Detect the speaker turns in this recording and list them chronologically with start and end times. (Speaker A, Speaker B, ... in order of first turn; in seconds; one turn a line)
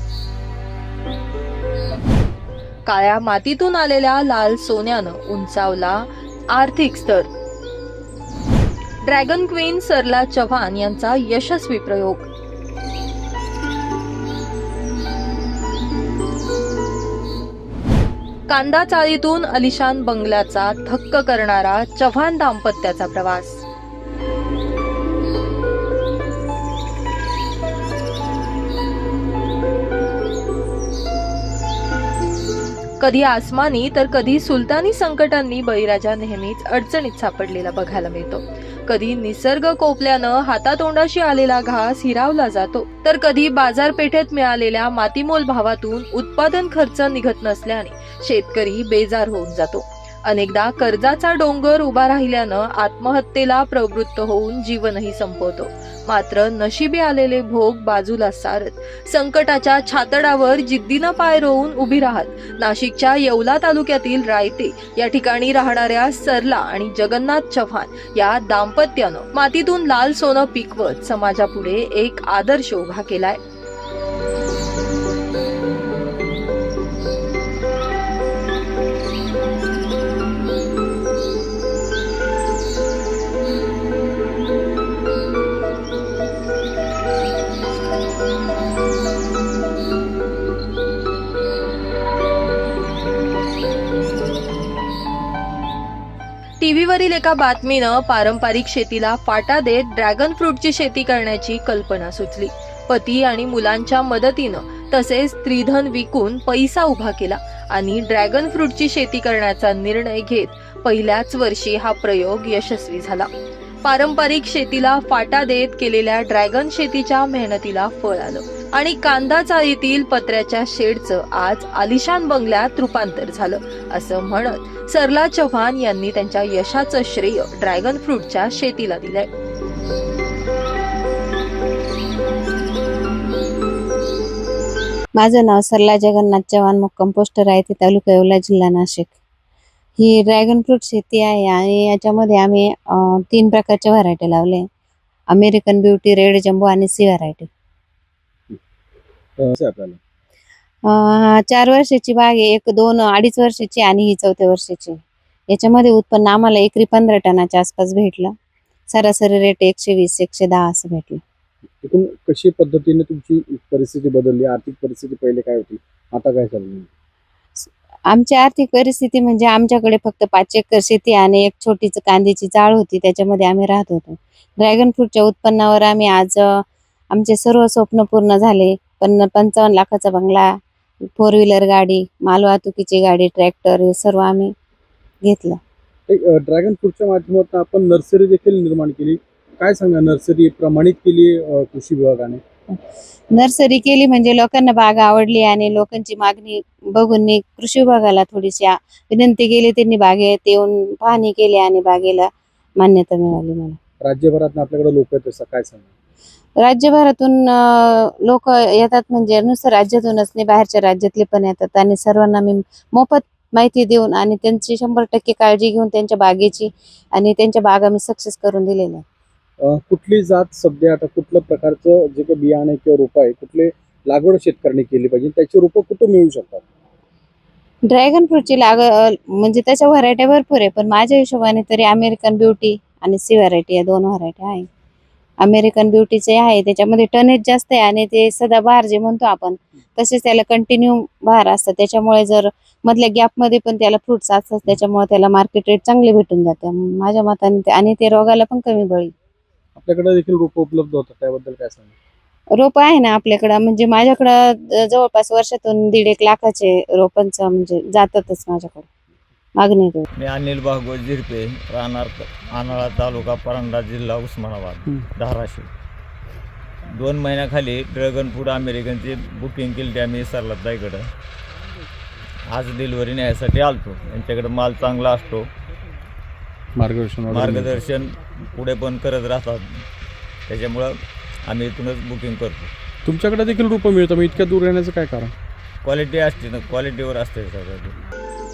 Speaker A: 2.9-7.3
Speaker A: 9.0-12.3
Speaker A: 18.5-23.6
Speaker A: 33.0-73.4
Speaker A: 96.6-113.3
Speaker A: 113.8-129.3
Speaker B: 135.2-139.2
Speaker B: 140.0-144.7
Speaker B: 145.3-147.5
Speaker C: 149.4-150.0
Speaker B: 150.9-155.0
Speaker B: 155.5-158.3
Speaker B: 158.9-161.2
Speaker C: 161.8-166.9
Speaker B: 167.6-180.5
Speaker B: 181.2-184.5
Speaker B: 185.2-185.6
Speaker C: 186.1-192.4
Speaker B: 193.3-202.3
Speaker B: 202.8-203.8
Speaker C: 204.0-205.9
Speaker B: 206.6-219.0
Speaker C: 219.6-226.6
Speaker B: 227.9-234.7
Speaker B: 235.4-249.1
Speaker C: 249.7-251.9
Speaker B: 252.5-258.9
Speaker B: 259.6-260.1
Speaker D: 260.1-265.7
Speaker D: 266.9-271.1
Speaker D: 272.5-275.5
Speaker C: 276.8-277.8
Speaker D: 277.3-279.7
Speaker D: 280.5-280.9
Speaker D: 281.5-282.7
Speaker C: 283.0-285.3
Speaker D: 285.8-287.9